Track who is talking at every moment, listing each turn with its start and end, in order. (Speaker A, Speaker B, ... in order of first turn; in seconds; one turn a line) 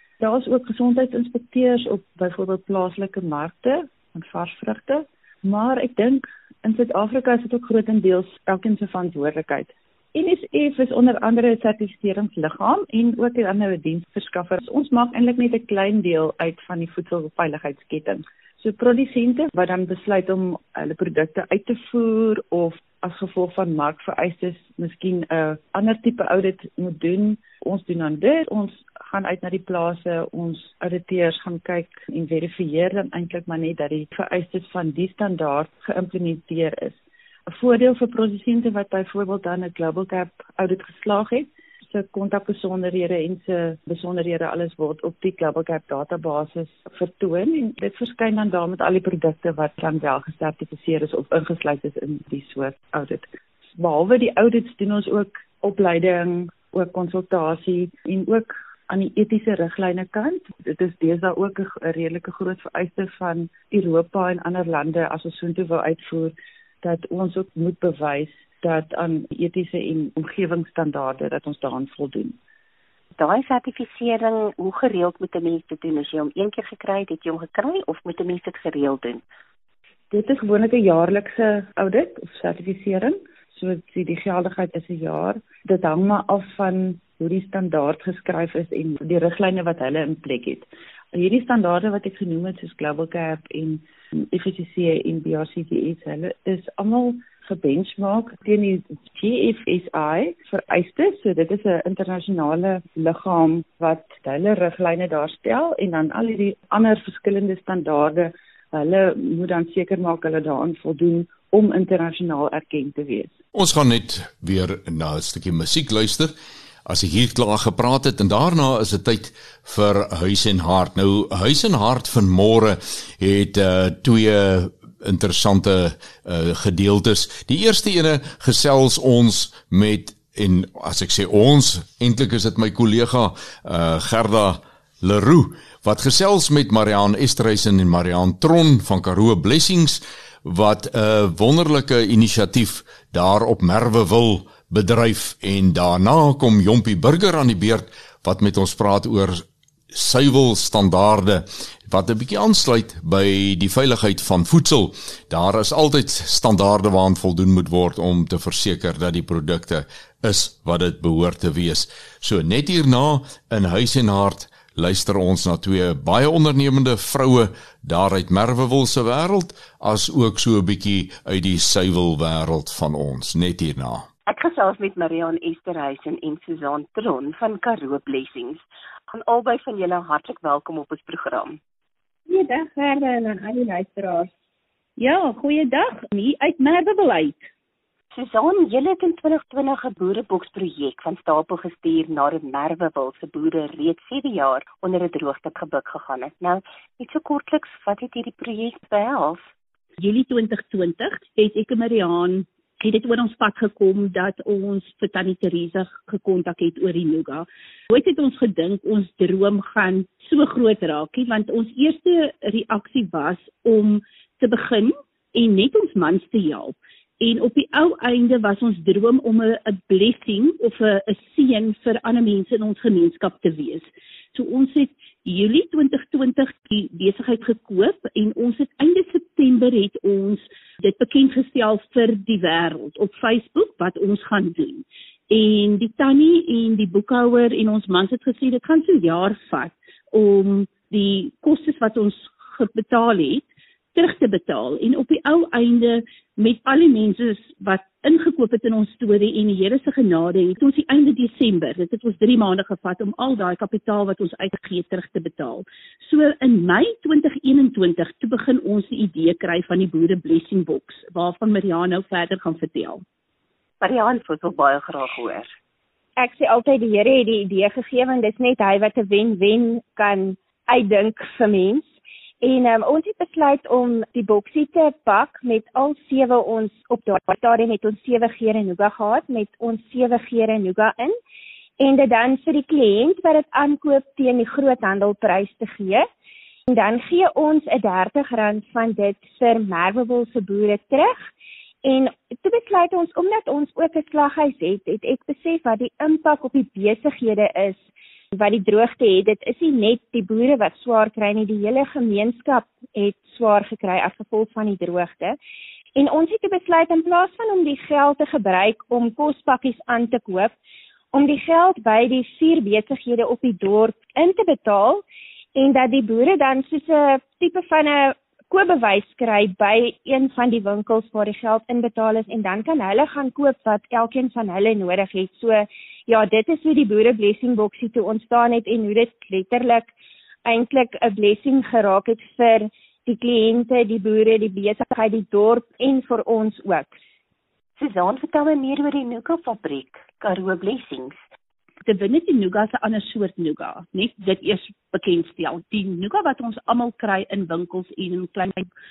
Speaker A: 0.2-72.4
Speaker B: 73.2-79.2
Speaker A: 80.1-113.3
Speaker C: 113.5-116.3
Speaker C: 116.8-174.1
Speaker B: 174.3-181.6
Speaker D: 182.3-184.3
Speaker E: 185.0-187.5
Speaker B: 188.1-199.4
Speaker E: 200.0-263.0
Speaker B: 263.8-265.5
Speaker D: 266.2-271.9
Speaker D: 272.4-281.1
Speaker D: 281.8-286.0
Speaker D: 286.7-291.2
Speaker D: 291.8-297.8
Speaker D: 298.3-305.4
Speaker D: 305.9-310.5
Speaker D: 311.1-315.0
Speaker D: 315.5-329.9
Speaker D: 330.4-336.9
Speaker B: 337.8-341.2
Speaker E: 341.8-348.7